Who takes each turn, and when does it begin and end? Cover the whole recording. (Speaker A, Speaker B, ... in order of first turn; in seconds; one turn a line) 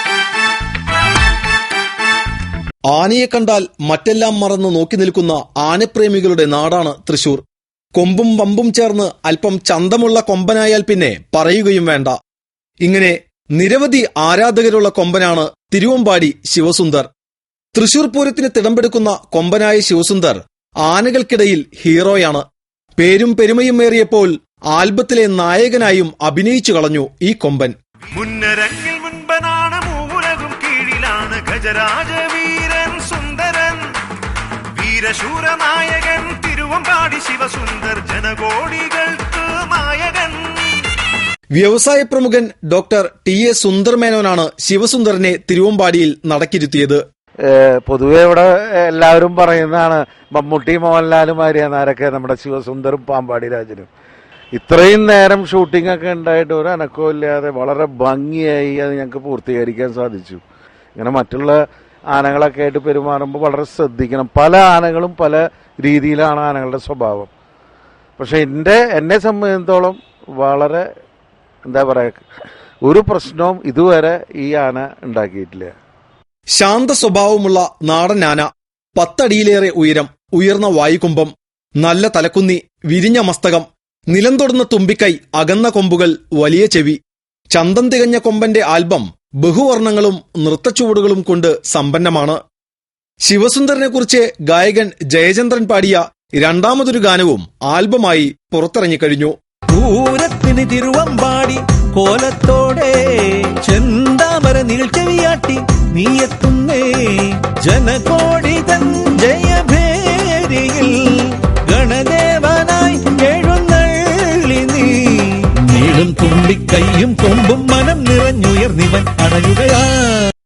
Speaker A: 2.9-7.4
Speaker A: 8.0-12.1
Speaker A: 12.8-17.1
Speaker A: 17.7-22.4
Speaker A: 23.0-27.7
Speaker B: 28.1-33.8
Speaker B: 34.8-40.6
Speaker A: 41.5-47.0
Speaker C: 47.5-53.9
Speaker C: 54.5-60.4
Speaker C: 61.0-67.3
Speaker C: 68.2-70.8
Speaker C: 71.6-72.2
Speaker C: 72.8-75.7
Speaker A: 76.5-87.0
Speaker A: 87.5-92.4
Speaker A: 93.2-99.3
Speaker D: 99.7-120.3